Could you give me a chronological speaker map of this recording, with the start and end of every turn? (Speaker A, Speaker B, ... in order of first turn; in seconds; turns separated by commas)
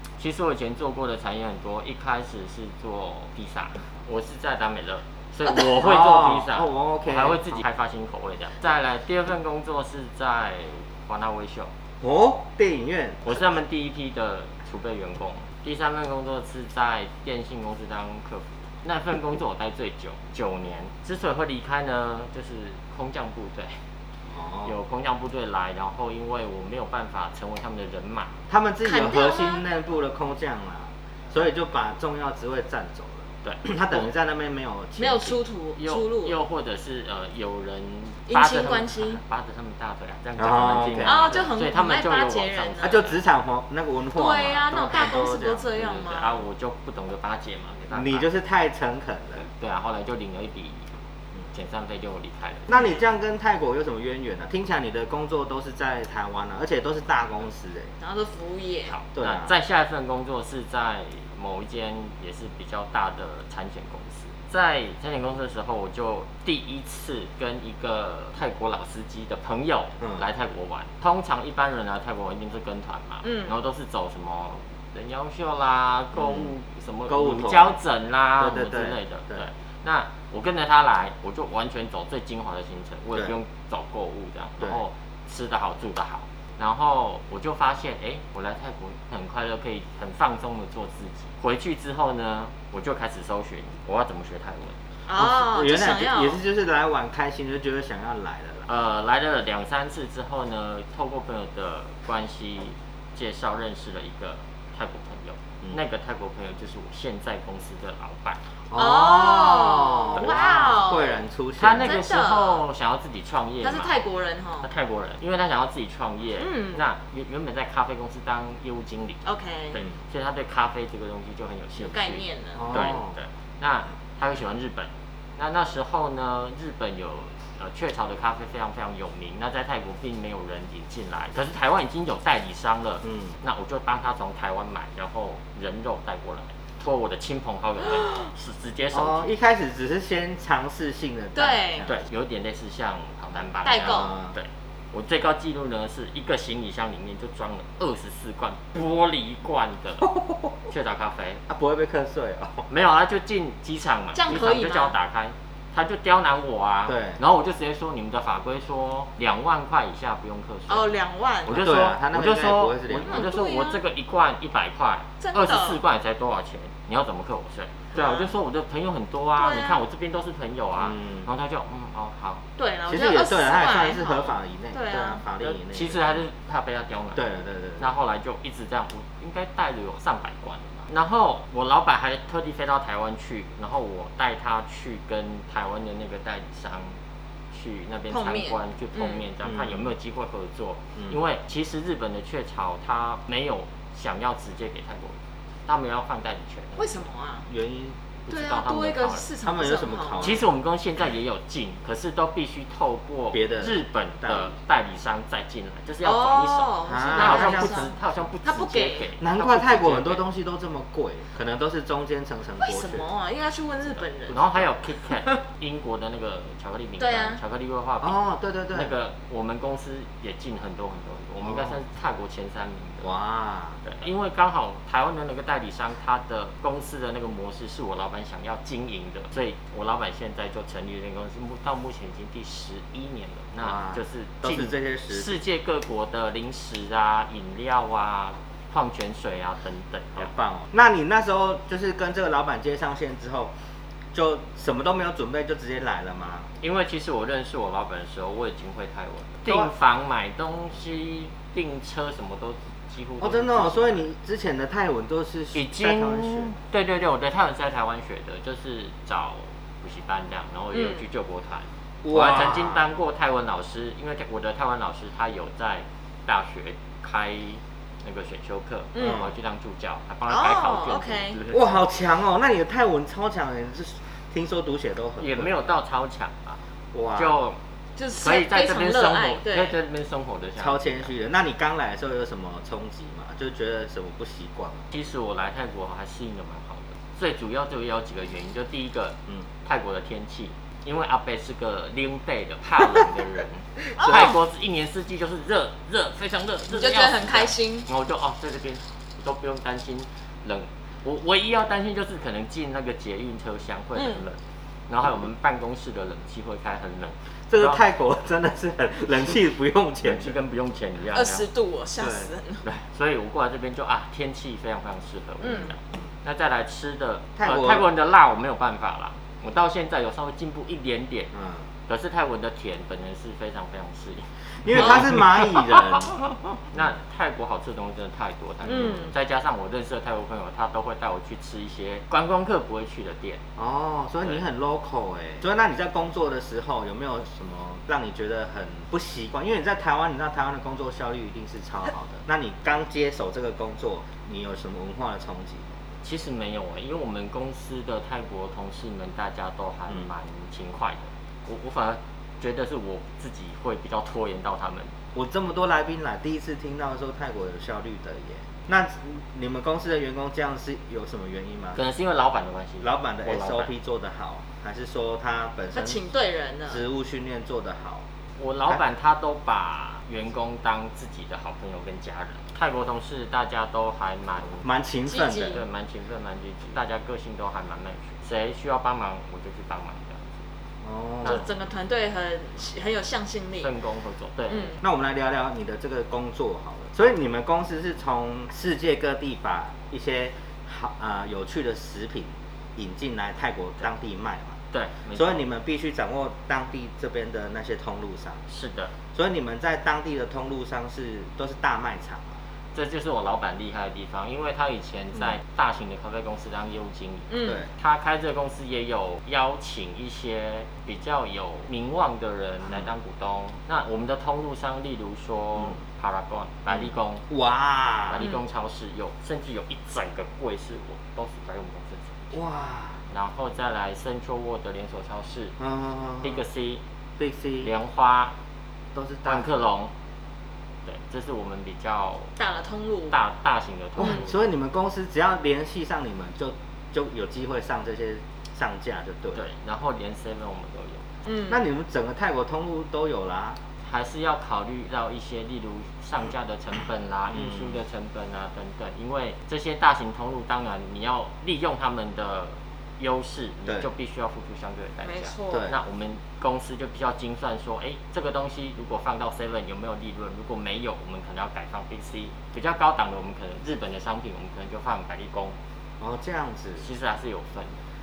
Speaker A: 0.2-11.7, Speaker B: 5.5-7.6, Speaker B: 12.0-13.4, Speaker A: 13.2-23.8, Speaker B: 24.3-24.7, Speaker A: 24.6-28.3, Speaker B: 28.5-35.4, Speaker C: 28.8-29.6, Speaker A: 33.4-34.1, Speaker C: 35.0-36.4, Speaker A: 35.8-43.2, Speaker C: 38.3-39.2, Speaker B: 40.4-41.4, Speaker C: 41.0-43.0, Speaker B: 42.8-45.7, Speaker C: 44.1-46.4, Speaker A: 45.7-48.2, Speaker B: 47.9-49.4, Speaker A: 49.4-51.0, Speaker A: 51.5-52.7, Speaker B: 52.7-57.9, Speaker C: 58.0-58.9, Speaker A: 58.9-94.8, Speaker B: 59.1-59.5, Speaker B: 70.0-70.2, Speaker C: 73.2-73.5, Speaker B: 76.1-76.5, Speaker B: 77.1-77.8, Speaker B: 78.4-79.5, Speaker C: 95.1-96.4, Speaker B: 95.2-98.7, Speaker A: 98.7-108.4, Speaker B: 108.7-111.9, Speaker C: 108.7-111.2, Speaker A: 110.1-110.7, Speaker A: 111.6-114.0, Speaker C: 111.8-112.6, Speaker C: 113.6-114.7, Speaker A: 114.6-119.2, Speaker C: 116.4-116.8, Speaker C: 119.2-119.8, Speaker A: 119.7-139.3, Speaker C: 121.8-122.7, Speaker B: 122.5-123.1, Speaker B: 133.0-133.3, Speaker B: 138.9-142.0, Speaker C: 141.3-141.9, Speaker A: 141.8-150.1, Speaker C: 143.6-144.1, Speaker B: 143.8-144.3, Speaker B: 150.0-150.5, Speaker A: 150.7-151.4, Speaker B: 151.5-152.7, Speaker A: 152.7-160.9, Speaker C: 154.1-154.9, Speaker B: 156.9-157.2, Speaker C: 160.7-161.6, Speaker A: 161.4-172.4, Speaker B: 161.5-163.3, Speaker C: 163.0-163.8, Speaker C: 165.2-165.8, Speaker C: 167.9-168.3, Speaker C: 169.4-169.8, Speaker B: 170.8-171.3, Speaker C: 172.6-175.2, Speaker B: 172.9-176.2, Speaker A: 175.4-177.2, Speaker B: 177.1-177.9, Speaker A: 177.8-187.0, Speaker A: 187.5-197.0, Speaker C: 188.1-189.2, Speaker B: 189.4-189.8, Speaker C: 196.8-197.5, Speaker B: 197.5-198.0, Speaker A: 198.3-199.3, Speaker C: 198.3-200.4, Speaker B: 199.4-200.4, Speaker A: 200.2-210.2, Speaker B: 203.3-204.5, Speaker C: 206.0-209.1, Speaker B: 206.8-207.9, Speaker B: 209.2-213.1, Speaker C: 212.6-214.6, Speaker A: 214.3-218.2, Speaker C: 217.0-217.4, Speaker B: 218.0-218.9, Speaker A: 218.7-223.1, Speaker B: 221.4-221.8, Speaker B: 223.0-223.8, Speaker A: 223.8-240.3, Speaker B: 233.6-235.4, Speaker B: 240.2-243.5, Speaker B: 244.1-246.5, Speaker A: 246.6-254.1, Speaker B: 249.4-249.7, Speaker B: 253.2-256.5, Speaker A: 255.5-271.7, Speaker C: 260.7-261.0, Speaker B: 262.0-262.9, Speaker C: 268.9-269.2, Speaker B: 269.0-269.3, Speaker C: 270.3-271.4, Speaker B: 271.5-275.5, Speaker A: 275.2-276.6, Speaker B: 276.9-277.4, Speaker A: 277.1-277.6, Speaker C: 277.9-279.8, Speaker A: 278.2-281.1, Speaker B: 280.6-284.9, Speaker A: 284.9-307.8, Speaker C: 294.0-294.4, Speaker C: 296.7-297.9, Speaker C: 303.9-304.2, Speaker B: 307.5-310.4, Speaker A: 310.0-311.4, Speaker C: 311.1-312.6, Speaker B: 312.0-312.3, Speaker A: 312.6-321.3, Speaker C: 315.4-315.7, Speaker B: 317.4-317.8, Speaker B: 321.3-321.6, Speaker A: 321.9-333.4, Speaker B: 324.6-326.1, Speaker C: 328.6-329.1, Speaker B: 328.7-329.1, Speaker B: 333.6-345.8, Speaker A: 346.0-354.9, Speaker B: 355.1-361.8, Speaker A: 361.7-363.7, Speaker B: 362.8-366.1, Speaker C: 365.7-366.8, Speaker B: 366.7-368.0, Speaker A: 368.4-374.6, Speaker B: 374.6-375.6, Speaker C: 375.1-375.6, Speaker A: 375.5-380.4, Speaker B: 380.8-381.4, Speaker C: 381.2-383.7, Speaker A: 383.6-384.8, Speaker C: 384.5-384.8, Speaker B: 384.8-394.6, Speaker A: 394.7-395.4, Speaker B: 395.1-398.4, Speaker A: 398.5-398.9, Speaker B: 399.1-402.3, Speaker A: 402.7-417.2, Speaker C: 407.3-407.6, Speaker B: 416.7-418.3, Speaker A: 418.1-422.1, Speaker B: 422.3-423.0, Speaker A: 423.1-425.6, Speaker B: 425.6-426.4, Speaker A: 426.2-426.8, Speaker B: 427.2-427.7, Speaker A: 427.6-428.3, Speaker B: 428.9-429.5, Speaker A: 429.2-429.9, Speaker A: 430.9-432.3, Speaker C: 432.4-433.2, Speaker A: 433.1-434.5, Speaker B: 434.0-439.4, Speaker A: 439.3-441.1, Speaker C: 441.2-441.6, Speaker B: 441.5-443.6, Speaker A: 443.8-465.6, Speaker B: 447.3-447.8, Speaker C: 455.0-455.7, Speaker B: 455.5-455.8, Speaker B: 466.0-466.9, Speaker A: 466.8-467.8